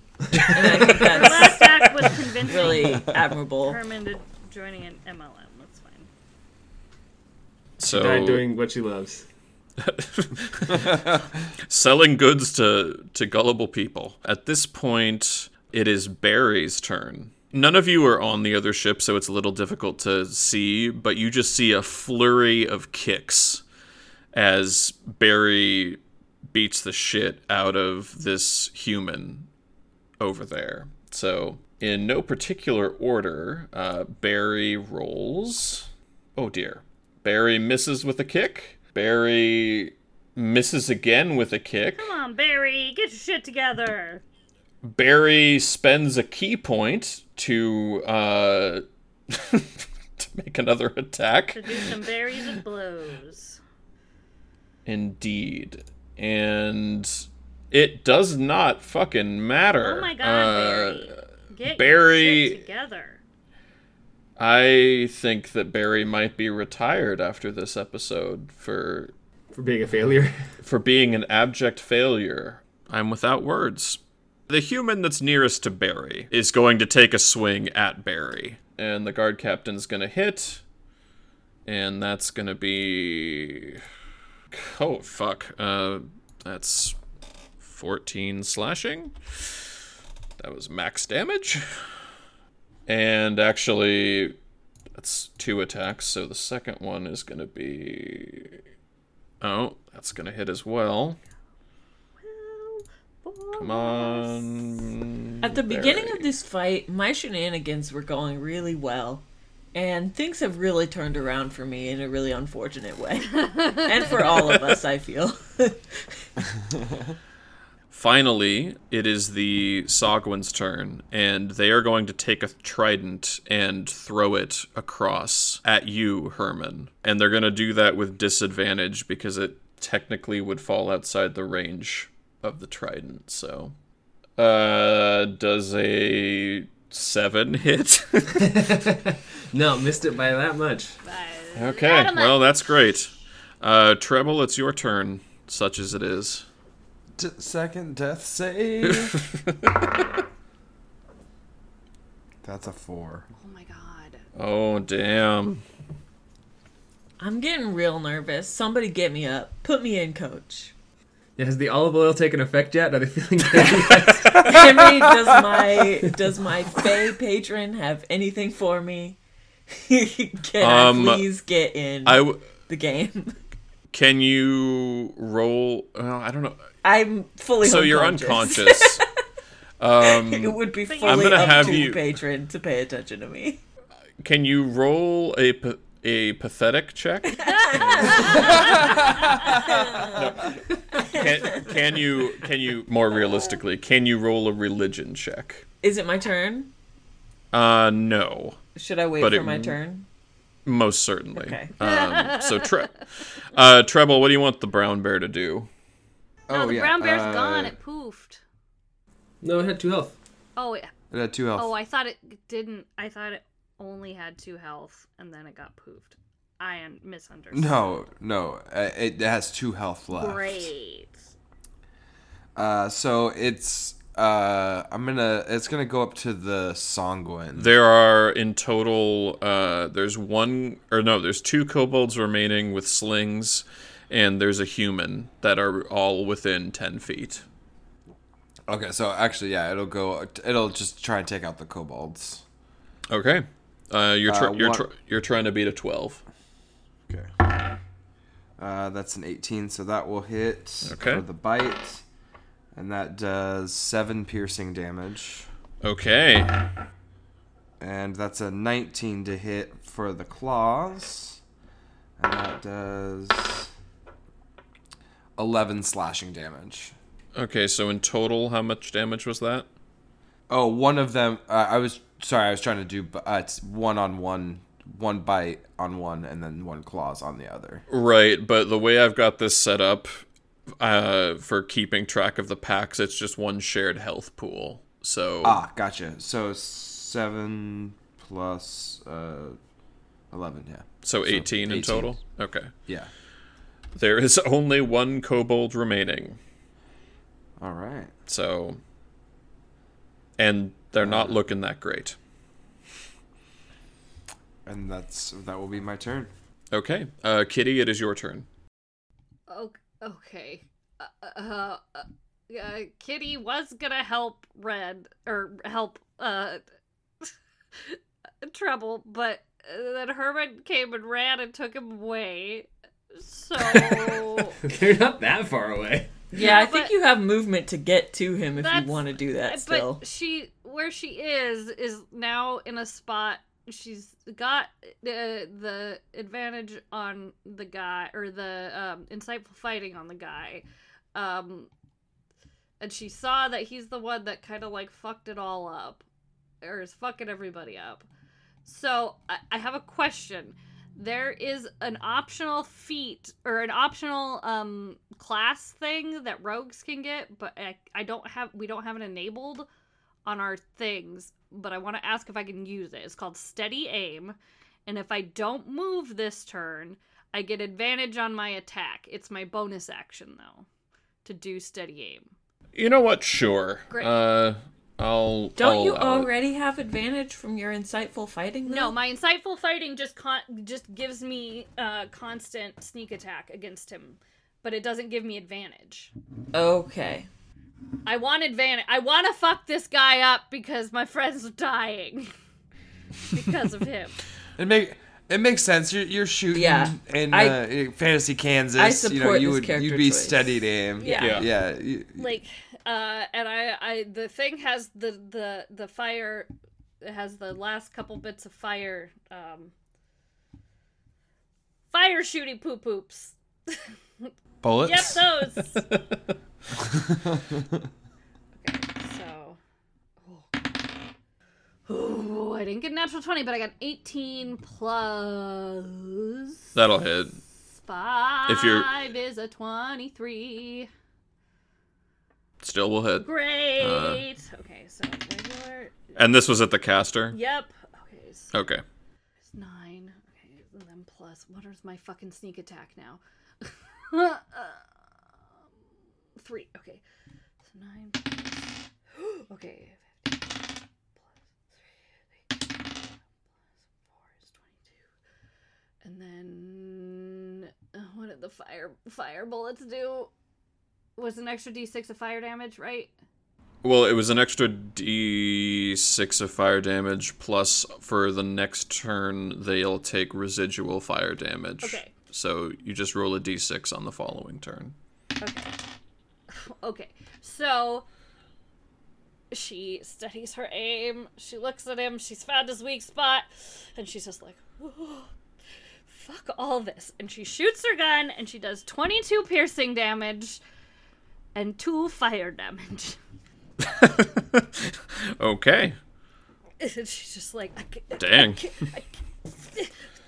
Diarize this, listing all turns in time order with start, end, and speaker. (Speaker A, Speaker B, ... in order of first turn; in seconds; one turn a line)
Speaker A: 0.3-0.6
Speaker B: 0.4-1.9
Speaker C: 0.8-6.1
Speaker B: 2.4-3.8
Speaker D: 7.8-8.4
Speaker A: 7.8-9.2
Speaker D: 9.8-11.0
Speaker E: 10.7-11.2
Speaker D: 11.7-23.6
Speaker D: 24.3-29.5
Speaker D: 30.2-42.1
Speaker C: 41.9-44.2
Speaker D: 44.8-52.0
Speaker C: 51.5-53.6
Speaker D: 54.9-62.6
Speaker C: 59.8-63.2
Speaker D: 64.4-69.1
Speaker A: 69.5-70.5
Speaker D: 70.6-80.6
Speaker D: 81.7-83.8
Speaker D: 84.5-87.0
Speaker D: 87.6-89.7
Speaker D: 90.4-91.6
Speaker D: 92.9-94.3
Speaker D: 95.0-98.6
Speaker D: 99.4-101.2
Speaker C: 102.2-104.7
Speaker D: 103.6-106.2
Speaker B: 105.4-116.2
Speaker C: 113.4-114.3
Speaker D: 117.9-133.7
Speaker D: 134.4-138.5
Speaker A: 138.4-141.0
Speaker C: 141.0-142.8
Speaker D: 141.5-146.5
Speaker E: 147.2-149.2
Speaker D: 148.9-149.7
Speaker E: 152.4-153.3
Speaker C: 153.4-154.2
Speaker D: 154.3-155.6
Speaker B: 157.2-160.7
Speaker A: 161.4-164.6
Speaker B: 164.3-169.2
Speaker B: 169.7-173.4
Speaker D: 170.6-171.3
Speaker D: 172.0-172.4
Speaker D: 173.9-176.6
Speaker B: 176.8-179.0
Speaker D: 177.6-179.0
Speaker D: 179.8-182.0
Speaker B: 180.0-183.6
Speaker C: 180.9-181.9
Speaker D: 184.2-189.4
Speaker B: 187.3-188.6
Speaker C: 187.5-189.8
Speaker E: 188.6-189.4
Speaker B: 189.5-190.2
Speaker D: 190.1-195.7
Speaker B: 190.9-191.7
Speaker B: 195.8-196.7
Speaker D: 197.5-198.6
Speaker B: 198.7-200.1
Speaker D: 199.2-199.8
Speaker D: 200.7-205.7
Speaker B: 201.3-201.7
Speaker C: 201.8-202.9
Speaker E: 206.5-207.7
Speaker C: 206.5-208.4
Speaker A: 209.4-210.2
Speaker C: 210.6-210.9
Speaker E: 211.1-211.7
Speaker C: 211.6-217.8
Speaker E: 217.5-220.7
Speaker C: 220.1-221.2
Speaker E: 222.6-227.7
Speaker D: 227.6-237.4
Speaker E: 238.7-242.4
Speaker D: 243.1-246.2
Speaker E: 244.3-244.8
Speaker E: 247.1-247.5
Speaker E: 248.6-252.0
Speaker D: 250.8-251.2
Speaker E: 252.7-255.5
Speaker D: 255.8-256.7
Speaker E: 257.8-261.4
Speaker E: 262.2-263.7
Speaker E: 265.4-266.9
Speaker D: 267.3-269.7
Speaker E: 270.5-277.8
Speaker D: 277.9-280.2
Speaker D: 280.8-285.6
Speaker E: 285.4-289.6
Speaker E: 290.3-292.2
Speaker D: 291.0-292.7
Speaker D: 293.9-296.4
Speaker E: 297.6-298.1
Speaker D: 298.3-298.8
Speaker D: 300.4-302.2
Speaker E: 301.0-301.4
Speaker E: 304.6-306.3
Speaker D: 306.7-308.5
Speaker C: 309.5-316.6
Speaker C: 317.2-324.6
Speaker A: 323.6-326.2
Speaker B: 326.3-330.0
Speaker C: 326.3-326.9
Speaker C: 328.6-341.7
Speaker C: 342.8-346.0
Speaker C: 346.6-348.1
Speaker C: 348.6-359.7
Speaker C: 360.2-370.6
Speaker C: 371.2-372.3
Speaker D: 372.7-376.3
Speaker B: 375.6-378.9
Speaker C: 378.6-386.1
Speaker B: 386.5-387.3
Speaker C: 388.0-392.3
Speaker C: 393.3-394.2
Speaker E: 394.6-402.3
Speaker B: 396.5-397.6
Speaker B: 398.8-401.3
Speaker C: 401.0-401.4
Speaker D: 401.1-401.4
Speaker C: 402.1-406.5
Speaker C: 407.0-409.7
Speaker C: 411.9-414.3
Speaker D: 414.6-416.0
Speaker C: 414.8-415.8
Speaker C: 418.5-419.6
Speaker C: 420.2-420.6
Speaker C: 421.9-426.7
Speaker D: 426.7-427.4
Speaker C: 427.7-430.9
Speaker D: 428.5-428.9
Speaker D: 432.6-434.2
Speaker C: 433.2-436.1
Speaker D: 436.1-437.4
Speaker C: 437.3-438.5
Speaker D: 438.5-438.8
Speaker C: 439.4-444.9
Speaker C: 446.4-447.0
Speaker C: 447.6-450.5
Speaker C: 454.1-454.8
Speaker C: 456.0-460.3
Speaker C: 461.1-463.1
Speaker D: 463.8-474.9
Speaker C: 471.8-472.1
Speaker C: 475.4-475.7
Speaker C: 476.5-478.1
Speaker C: 479.5-485.3
Speaker C: 486.1-490.6
Speaker C: 491.5-493.2
Speaker D: 493.8-495.9
Speaker C: 496.8-500.0
Speaker D: 498.2-498.9